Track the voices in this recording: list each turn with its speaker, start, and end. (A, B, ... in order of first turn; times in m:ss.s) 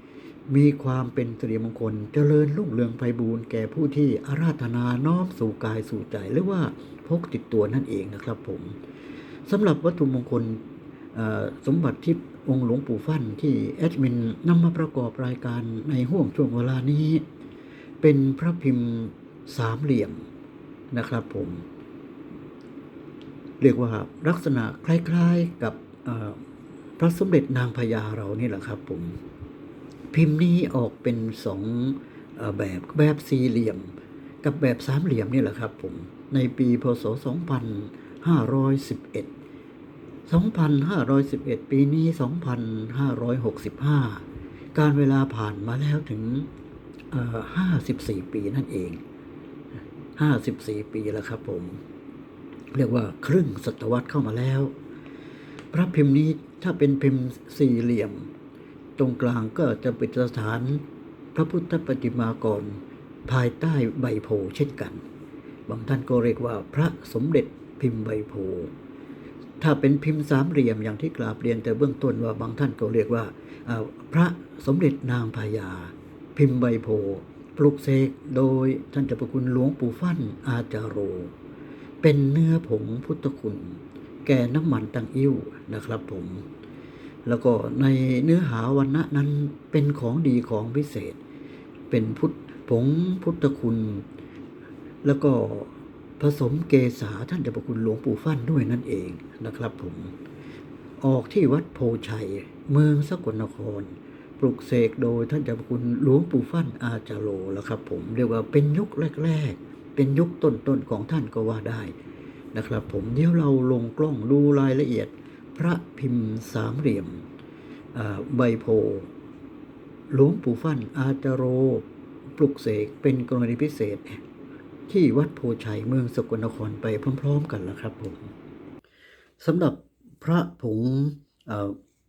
0:00.5-0:08.8 A
0:09.5-0:17.2 A
0:18.0-0:20.3 A
0:20.9-0:21.6 A
0:23.6-0:26.4 A
0:27.0-0:29.2 A
0:30.1-0:39.3 A
0:40.3-0:46.5 A
0:47.1-0:49.0 A
0:50.2-0:51.8 A
0:52.7-0:54.7 A
0:55.7-0:58.3 A
0:59.0-1:05.0 A
1:05.7-1:08.7 A
1:09.6-1:21.3 A
1:22.0-1:26.5 A
1:27.2-1:31.2 A
1:31.9-1:34.1 A
1:35.0-1:40.1 A
1:41.0-1:52.0 A
1:52.5-1:57.3 A
1:57.9-1:59.1 A
2:00.1-2:04.2 A
2:04.9-2:08.3 A
2:09.4-2:11.8 A